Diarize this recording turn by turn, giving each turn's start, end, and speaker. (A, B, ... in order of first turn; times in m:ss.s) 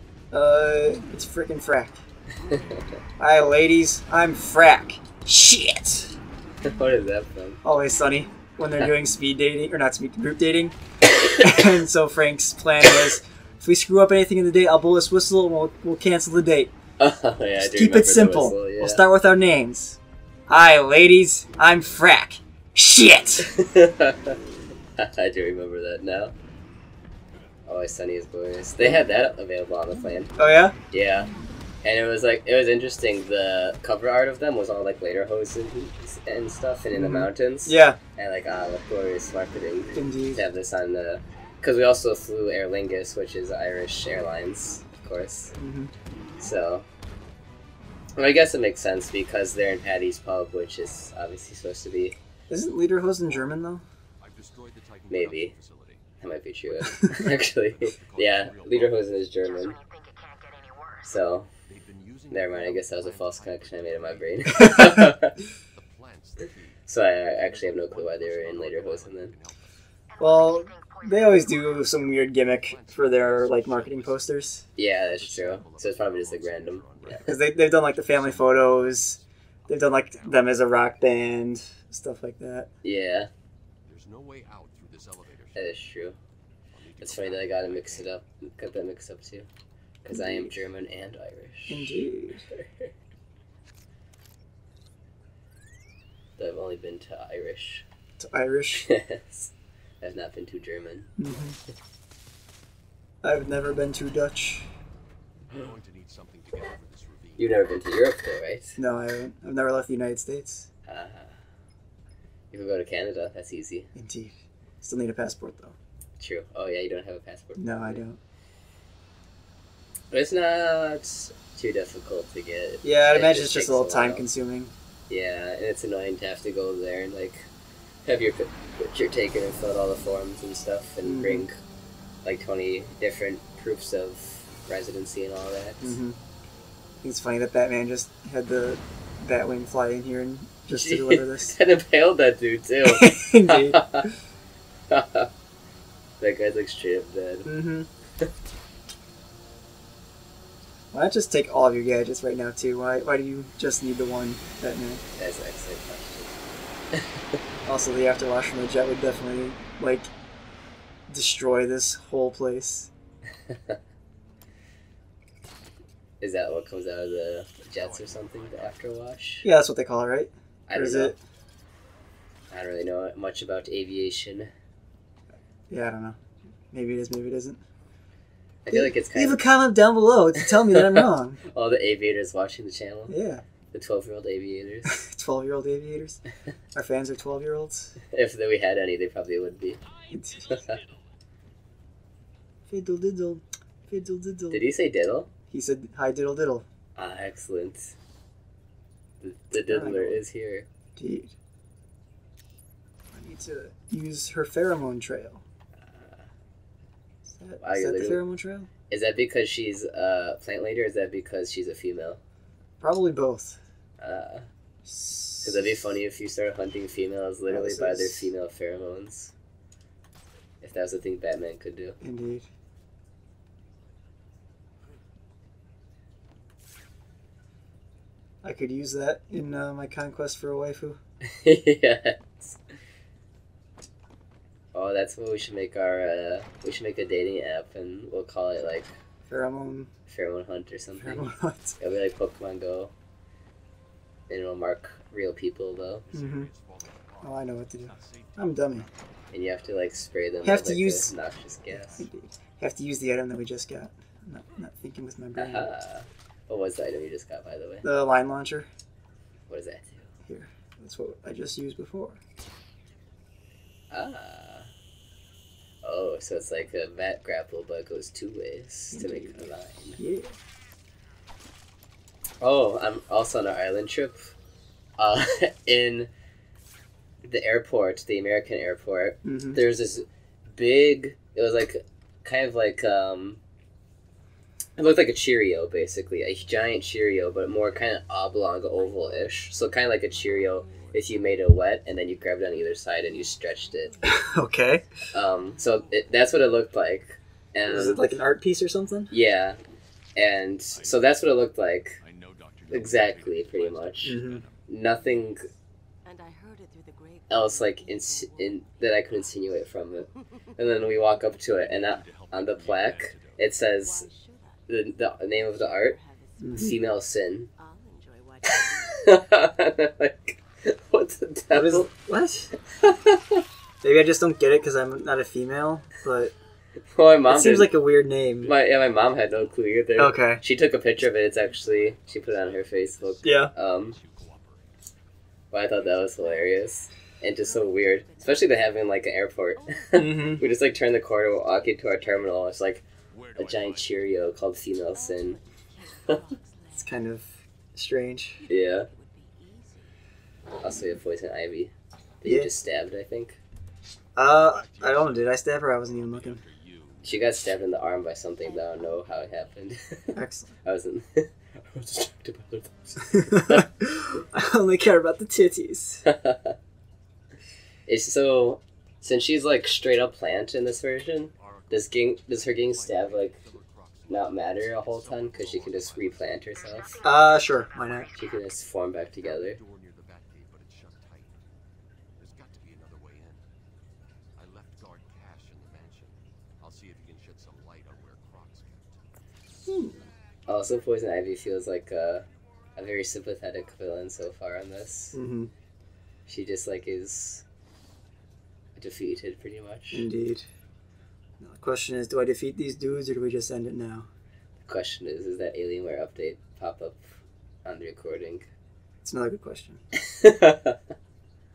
0:00.3-0:02.0 A
0:02.5-0:02.8 B
0:03.2-0:06.1 A
0:06.7-0:07.6 B
0:07.6-0:10.8 A
0:11.3-0:16.7 A
0:17.0-0:19.0 B
0:17.6-0:23.5 A
0:23.4-0:24.4 B
0:25.0-0:26.3 B
0:27.6-0:30.3 B
0:30.4-0:30.8 A
0:30.9-0:31.3 B
0:31.8-0:45.5 B
0:36.9-0:38.0 A
0:39.9-0:40.4 A
0:45.6-0:45.9 A
0:46.4-0:46.8 B
0:48.2-0:52.2 B
0:52.5-0:53.8 A
0:54.2-0:56.0 C
0:55.1-0:55.5 B
0:56.2-0:59.8 B
0:57.3-0:59.1 C
0:59.6-1:01.0 D
1:01.0-1:01.5 B
1:01.6-1:05.0 C
1:02.3-1:05.3 B
1:05.7-1:06.8 C
1:06.9-1:09.3 B
1:07.4-1:09.8 C
1:10.2-1:11.6 D
1:10.2-1:14.6 A
1:12.6-1:20.6 C
1:14.8-1:17.3 B
1:17.2-1:22.7 A
1:22.8-1:23.3 B
1:23.8-1:25.7 C
1:25.5-1:26.2 B
1:26.7-1:28.2 C
1:27.0-1:29.5 B
1:30.0-1:32.9 B
1:30.1-1:30.5 A
1:31.7-1:32.4 A
1:36.4-1:37.8 B
1:38.2-1:38.8 A
1:38.8-1:41.1 B
1:41.2-1:41.6 A
1:43.2-1:44.7 A
1:45.5-1:47.6 C
1:47.4-1:48.8 B
1:48.8-1:50.7 A
1:50.9-1:51.3 B
1:52.5-1:53.9 B
1:53.9-1:55.8 A
1:56.2-1:58.0 B
1:57.6-1:58.2 A
2:00.1-2:04.2 B
2:02.8-2:04.7 A
2:05.1-2:07.5 B
2:08.0-2:11.5 B
2:11.0-2:11.5 A
2:12.2-2:16.0 B
2:15.8-2:16.2 A
2:17.0-2:21.6 A
2:20.7-2:24.0 B
2:22.8-2:24.1 A
2:24.9-2:25.3 B
2:26.2-2:27.5 B
2:27.4-2:27.9 A
2:30.9-2:35.0 A
2:35.2-2:36.4 B
2:37.6-2:40.1 A
2:41.1-2:42.9 A
2:43.5-2:43.8 B
2:46.2-2:49.4 B
2:47.7-2:48.8 C
2:49.4-2:51.2 A
2:50.7-2:51.1 B
2:52.5-2:54.5 B
2:55.7-2:56.2 A
2:56.7-2:57.6 A
2:58.6-2:59.4 B
2:58.7-3:01.4 A
3:00.7-3:03.2 B
3:03.1-3:03.4 A
3:03.7-3:05.0 B
3:04.9-3:06.2 A
3:06.7-3:08.0 A
3:08.1-3:09.8 B
3:10.1-3:10.5 A
3:10.5-3:10.8 B
3:12.7-3:14.6 A
3:14.5-3:15.3 B
3:15.5-3:16.6 A
3:17.0-3:17.9 B
3:19.2-3:20.6 B
3:19.6-3:20.2 A
3:21.0-3:21.3 A
3:23.1-3:25.4 A
3:25.8-3:26.2 B
3:27.2-3:28.7 A
3:27.6-3:28.2 B
3:28.9-3:32.2 B
3:32.8-3:33.6 A
3:34.0-3:34.5 B
3:34.8-3:35.8 A
3:35.4-3:39.3 B
3:37.5-3:38.3 A
3:40.6-3:42.0 B
3:42.0-3:42.5 A
3:48.4-3:51.0 A
3:51.3-3:52.6 B
3:54.7-3:58.9 B
3:59.3-3:59.9 A
4:00.1-4:01.3 B
4:00.9-4:01.8 A
4:01.8-4:02.9 B
4:04.3-4:06.0 B
4:06.0-4:09.2 C
4:06.1-4:06.5 A
4:07.2-4:08.9 A
4:09.3-4:12.1 B
4:10.4-4:11.1 A
4:11.7-4:15.7 A
4:15.3-4:17.8 B
4:17.8-4:18.7 A
4:19.5-4:20.1 B
4:20.2-4:22.2 A
4:23.9-4:24.7 B
4:25.8-4:30.0 B
4:28.9-4:30.4 A
4:32.4-4:34.2 B
4:35.0-4:36.1 B
4:37.2-4:43.4 B
4:39.2-4:39.6 A
4:44.8-4:53.9 B
4:48.8-4:51.5 D
4:53.1-4:54.6 D
4:54.0-4:54.9 A
4:55.1-4:58.0 B
4:55.4-4:56.5 D
4:57.6-4:59.1 A
4:59.1-4:59.6 B
5:00.2-5:02.0 B
5:00.7-5:01.2 C
5:02.0-5:04.7 C
5:02.7-5:05.5 B
5:04.0-5:04.4 A
5:06.0-5:09.5 D
5:07.3-5:14.1 B
5:11.5-5:13.4 C
5:13.8-5:16.8 D
5:14.7-5:16.0 B
5:16.4-5:16.8 A
5:16.5-5:17.5 B
5:17.6-5:19.3 D
5:19.0-5:21.9 B
5:21.5-5:22.5 A
5:22.8-5:23.4 B
5:23.8-5:26.3 A
5:26.9-5:27.7 B
5:27.3-5:28.5 A
5:28.4-5:34.0 B
5:30.0-5:30.4 A
5:31.7-5:34.7 C
5:33.2-5:33.5 A
5:35.5-5:42.8 B
5:35.8-5:36.6 D
5:37.4-5:38.9 D
5:39.6-5:40.6 D
5:39.9-5:40.4 A
5:43.1-5:43.9 C
5:43.4-5:45.4 B
5:44.9-5:47.0 D
5:46.8-5:48.4 A
5:48.4-5:50.0 D
5:48.5-5:48.9 B
5:50.6-5:53.4 B
5:52.2-5:52.5 A
5:54.2-5:56.4 A
5:54.3-5:57.4 C
5:57.0-6:03.7 B
5:58.4-5:59.5 D
6:00.1-6:00.5 A
6:03.1-6:06.0 A
6:06.0-6:06.5 B
6:07.9-6:13.4 B
6:11.3-6:11.9 C
6:12.5-6:17.0 C
6:14.1-6:17.0 B
6:17.0-6:18.1 A
6:18.1-6:19.6 B
6:19.2-6:21.4 C
6:22.2-6:23.4 C
6:24.4-6:28.8 C
6:29.6-6:30.1 A
6:30.5-6:35.2 B
6:35.1-6:35.5 A
6:36.2-6:37.4 B
6:38.8-6:40.0 B
6:39.9-6:40.4 A
6:41.4-6:44.1 A
6:44.6-6:48.5 B
6:49.0-6:49.8 A
6:50.1-6:50.7 B